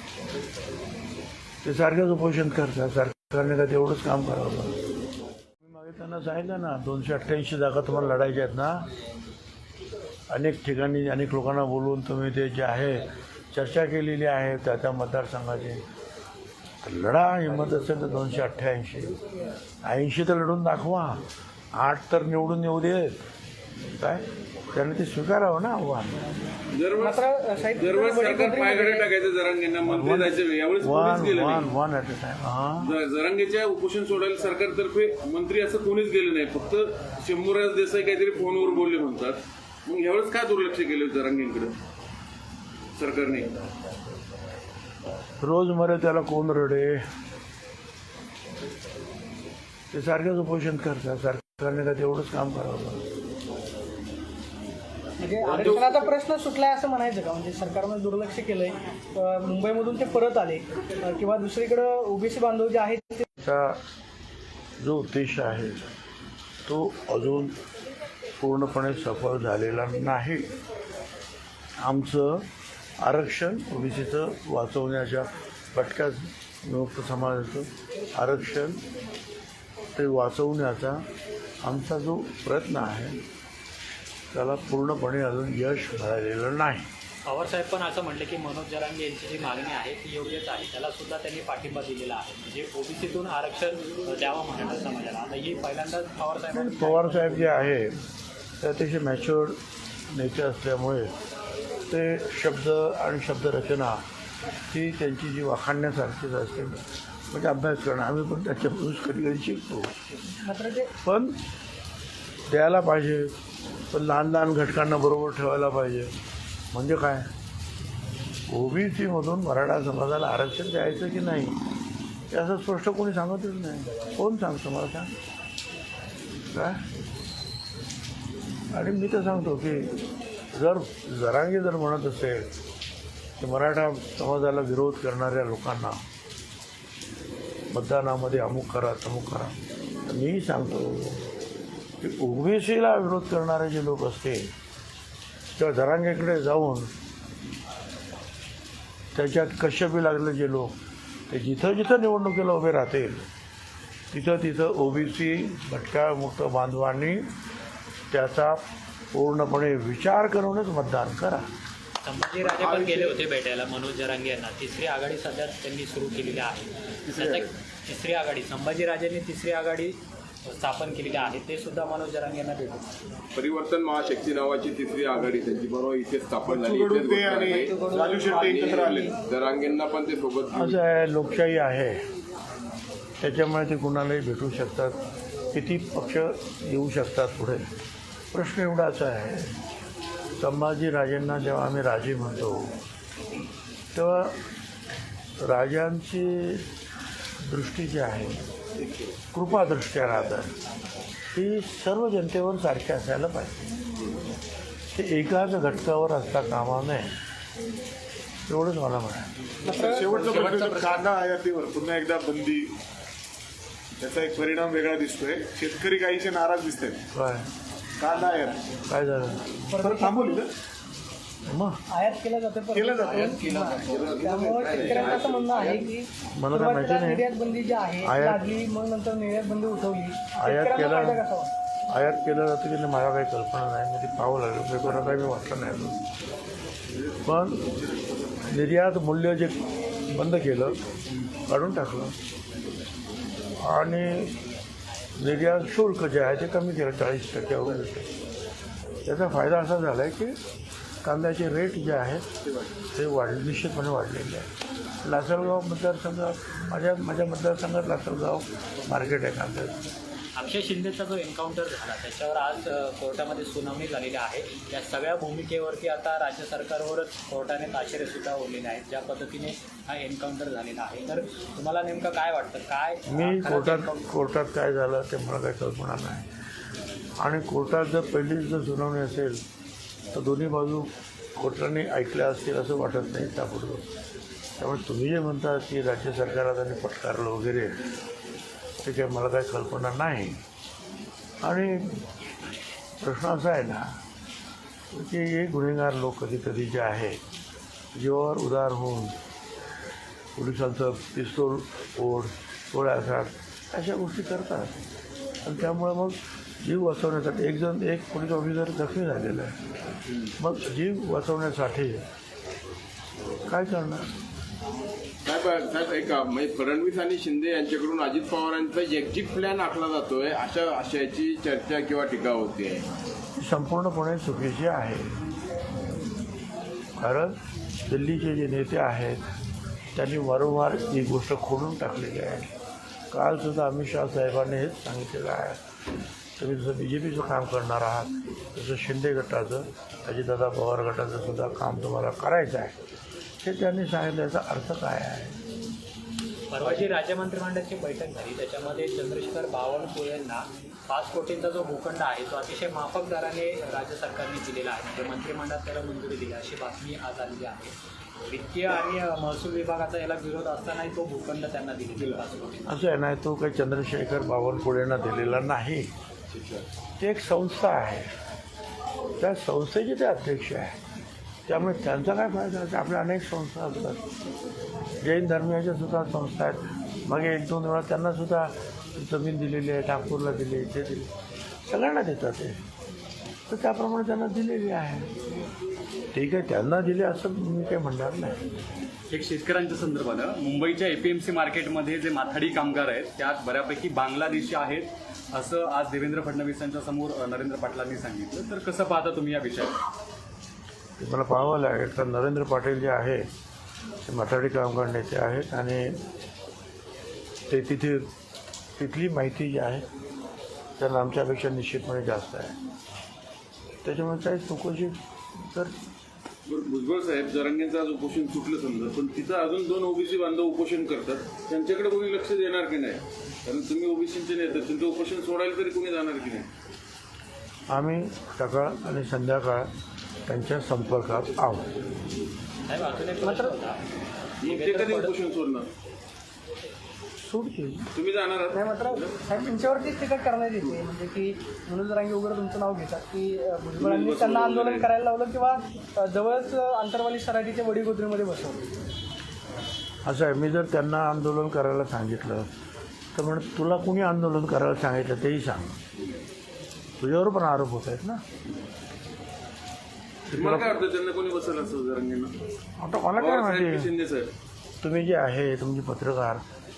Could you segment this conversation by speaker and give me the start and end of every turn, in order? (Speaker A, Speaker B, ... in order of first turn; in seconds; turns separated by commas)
Speaker A: 1.6-4.8, Speaker A: 5.6-8.9, Speaker A: 10.3-15.8, Speaker A: 16.8-19.2, Speaker A: 19.8-21.2, Speaker A: 21.7-23.2, Speaker A: 24.0-26.2, Speaker B: 26.7-27.2, Speaker C: 27.0-29.1, Speaker B: 27.8-31.7, Speaker A: 29.8-33.0, Speaker B: 32.8-41.8, Speaker B: 43.0-43.5, Speaker A: 45.4-47.0, Speaker A: 49.9-53.0, Speaker C: 55.2-63.3, Speaker B: 55.4-56.1, Speaker A: 63.4-63.8, Speaker A: 64.8-65.8, Speaker A: 66.7-67.5, Speaker A: 68.4-70.5, Speaker A: 71.8-72.5, Speaker A: 73.0-78.8, Speaker A: 80.0-81.0, Speaker A: 81.6-83.2, Speaker A: 84.3-86.9, Speaker D: 87.3-97.7, Speaker A: 96.5-98.0, Speaker A: 98.6-99.6, Speaker A: 100.1-101.1, Speaker A: 101.9-104.0, Speaker A: 104.7-110.0, Speaker C: 110.4-110.9, Speaker A: 111.0-111.4, Speaker A: 112.5-113.3, Speaker A: 113.9-116.1, Speaker A: 116.7-117.3, Speaker A: 118.5-121.6, Speaker A: 122.3-125.2, Speaker A: 126.5-126.8, Speaker A: 128.7-130.0, Speaker A: 130.5-132.5, Speaker A: 133.4-136.0, Speaker A: 137.7-141.3, Speaker A: 142.0-144.5, Speaker A: 145.6-146.9, Speaker A: 149.1-150.8, Speaker A: 151.3-153.3, Speaker A: 154.1-157.3, Speaker A: 158.1-161.5, Speaker D: 162.0-172.9, Speaker E: 162.5-163.1, Speaker E: 167.2-167.4, Speaker F: 173.4-180.8, Speaker E: 176.5-179.2, Speaker A: 180.5-182.0, Speaker A: 183.2-185.0, Speaker A: 185.5-187.7, Speaker A: 188.3-189.6, Speaker A: 190.4-192.7, Speaker A: 193.9-194.4, Speaker A: 195.4-196.7, Speaker A: 197.4-198.4, Speaker A: 199.3-200.5, Speaker A: 201.3-203.7, Speaker A: 204.9-207.1, Speaker A: 208.5-209.3, Speaker C: 209.7-210.2, Speaker E: 209.7-212.7, Speaker E: 214.0-217.0, Speaker A: 217.1-217.5, Speaker E: 218.0-218.6, Speaker A: 218.9-219.6, Speaker C: 219.7-220.4, Speaker E: 219.8-220.5, Speaker A: 221.5-221.8, Speaker C: 221.9-231.5, Speaker E: 222.7-224.8, Speaker F: 223.1-225.9, Speaker A: 226.3-227.3, Speaker A: 228.0-228.4, Speaker A: 230.4-231.2, Speaker A: 231.9-236.0, Speaker A: 237.2-237.7, Speaker A: 238.5-239.6, Speaker A: 240.1-240.8, Speaker A: 241.5-242.2, Speaker A: 243.6-244.3, Speaker A: 245.2-248.1, Speaker A: 249.1-250.4, Speaker A: 251.0-252.3, Speaker A: 252.9-254.5, Speaker A: 255.0-259.8, Speaker D: 260.4-274.0, Speaker A: 273.1-276.3, Speaker A: 277.2-279.4, Speaker A: 280.1-283.9, Speaker A: 284.6-287.9, Speaker A: 288.8-290.4, Speaker A: 291.4-292.4, Speaker A: 293.0-294.0, Speaker A: 294.9-297.2, Speaker A: 297.9-299.2, Speaker A: 300.4-304.8, Speaker A: 305.4-309.6, Speaker A: 310.4-312.1, Speaker A: 313.5-314.1, Speaker F: 315.2-322.9, Speaker A: 323.4-325.1, Speaker A: 327.0-329.2, Speaker A: 329.9-332.5, Speaker A: 333.1-335.6, Speaker A: 336.4-342.8, Speaker A: 343.4-345.4, Speaker D: 346.5-357.8, Speaker D: 358.3-362.6, Speaker A: 362.7-365.9, Speaker A: 367.0-368.1, Speaker A: 369.2-370.8, Speaker A: 371.5-374.0, Speaker A: 375.0-381.1, Speaker A: 381.6-382.6, Speaker A: 383.5-385.1, Speaker A: 386.1-388.4, Speaker G: 389.1-399.8, Speaker A: 401.0-403.3, Speaker A: 404.0-406.0, Speaker A: 407.5-408.1, Speaker A: 408.8-409.9, Speaker A: 410.8-412.6, Speaker A: 413.8-415.7, Speaker B: 416.5-426.5, Speaker A: 427.7-429.7, Speaker A: 430.3-431.7, Speaker D: 432.7-433.8, Speaker C: 433.2-433.6, Speaker B: 434.4-435.7, Speaker D: 434.4-435.2, Speaker A: 437.2-437.9, Speaker B: 437.9-439.8, Speaker C: 438.5-448.6, Speaker B: 443.8-444.9, Speaker A: 450.1-452.5, Speaker A: 453.1-455.8, Speaker A: 457.0-458.2, Speaker A: 460.3-460.8, Speaker B: 460.4-462.4, Speaker A: 462.8-463.9, Speaker B: 463.2-464.3, Speaker A: 464.8-466.4